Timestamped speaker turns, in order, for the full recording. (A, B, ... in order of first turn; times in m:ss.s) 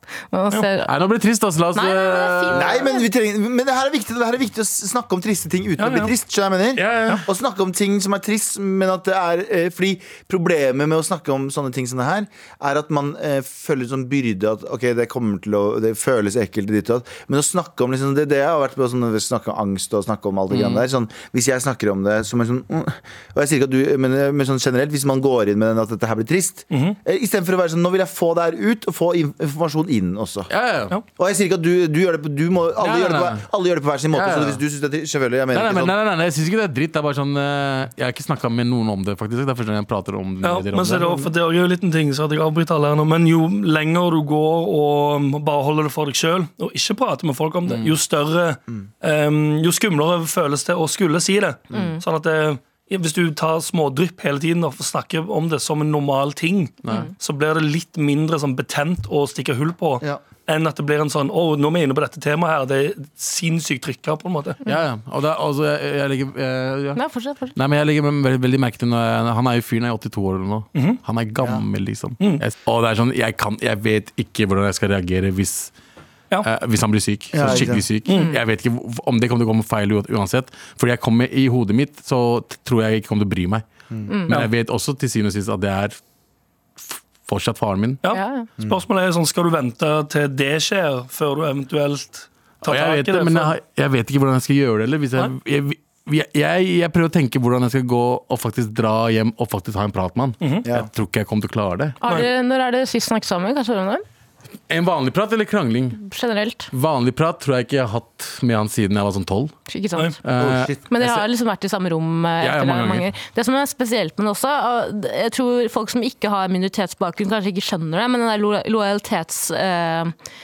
0:00.3-0:00.9 A
0:00.8-0:02.8 B
0:01.7-0:03.0 A
0:02.5-0:30.5 C
0:05.8-0:06.1 D
0:06.8-0:07.2 B
0:20.5-0:20.8 B
0:26.7-0:27.0 D
0:30.5-0:31.0 B
0:31.2-0:35.9 C
0:32.8-0:33.4 B
0:34.1-0:34.6 B
0:35.5-0:41.3 B
0:40.4-1:04.6 D
0:51.7-0:52.0 A
0:56.8-0:57.1 B
1:04.6-1:07.0 B
1:06.9-1:07.5 A
1:07.5-1:15.7 B
1:10.7-1:11.0 D
1:16.4-1:23.6 B
1:17.3-1:17.8 C
1:18.1-1:18.3 D
1:24.1-1:24.3 A
1:24.3-1:26.0 B
1:26.8-1:28.0 B
1:28.0-1:33.6 D
1:28.1-1:28.5 A
1:32.6-1:42.0 B
1:40.4-1:40.7 D
1:42.0-1:44.0 A
1:44.7-1:46.0 B
1:45.9-1:46.7 A
1:46.7-1:49.5 B
1:49.7-1:50.2 A
1:50.2-1:51.2 B
1:50.4-1:50.8 C
1:50.9-2:00.1 A
1:52.4-1:53.1 B